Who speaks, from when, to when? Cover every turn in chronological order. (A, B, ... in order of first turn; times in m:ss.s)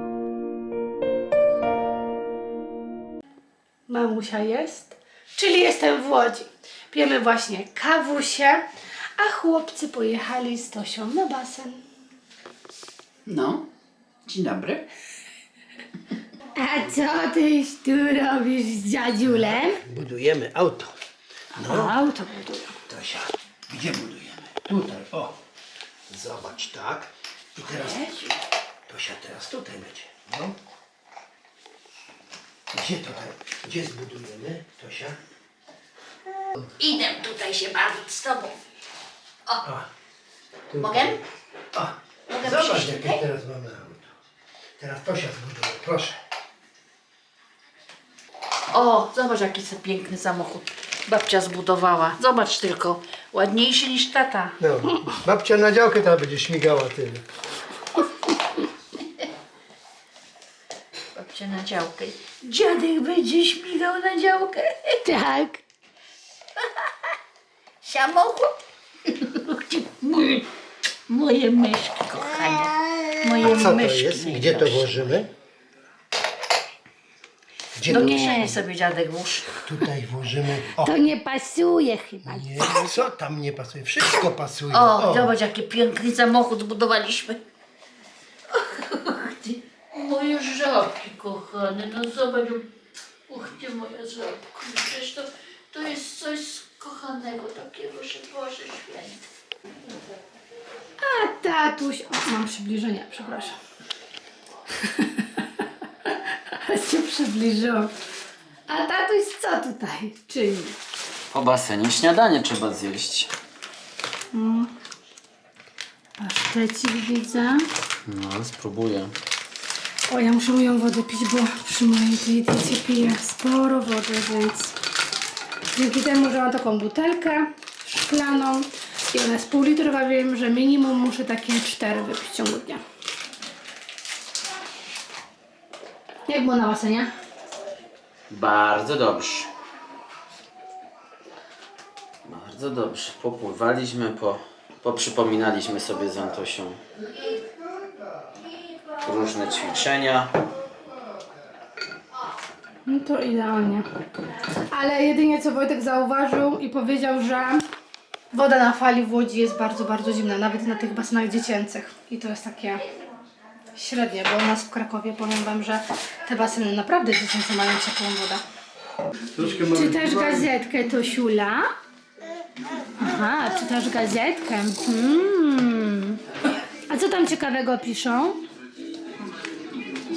0:03.9-0:08.6 A
0:09.2-0:11.8 A
0:13.2-0:13.6 B
0:14.2-0:14.9 B
0:16.6-0:19.8 A
0:19.2-0:20.9 C
0:21.6-0:21.9 C
0:21.7-0:22.8 A
0:22.9-0:25.4 C
0:24.2-0:24.5 B
0:26.1-0:28.0 C
0:27.6-0:28.4 B
0:28.9-0:30.6 C
0:32.7-0:35.2 C
0:36.8-0:38.6 B
0:40.7-0:44.2 C
0:40.8-0:41.2 B
0:42.3-0:43.2 B
0:44.8-0:46.2 C
0:48.7-0:54.6 B
0:54.6-0:57.2 C
1:01.1-1:05.0 B
1:05.0-1:05.6 A
1:07.8-1:10.4 B
1:11.1-1:15.1 B
1:13.2-1:14.0 A
1:13.4-1:15.3 C
1:17.8-1:18.6 C
1:17.9-1:19.5 B
1:17.9-1:18.6 A
1:19.6-1:20.9 C
1:20.8-1:23.0 A
1:22.2-1:25.3 C
1:24.7-1:27.4 B
1:28.5-1:32.7 B
1:33.3-1:39.2 B
1:41.0-1:43.6 A
1:44.8-1:47.9 A
1:48.7-1:50.8 A
1:51.3-1:53.3 D
1:54.3-1:54.7 A
1:56.2-1:57.6 A
1:58.0-1:59.1 D
2:00.1-2:04.8 A
2:05.7-2:12.8 A
2:16.3-2:17.1 A
2:18.3-2:19.5 D
2:22.2-2:26.8 D
2:29.0-2:30.3 D
2:32.8-2:33.9 A
2:34.4-2:37.6 A
2:38.3-2:42.8 A
2:43.7-2:48.4 A
2:49.3-2:50.5 C
2:49.5-2:51.7 A
2:53.0-2:56.2 A
2:56.9-2:58.4 A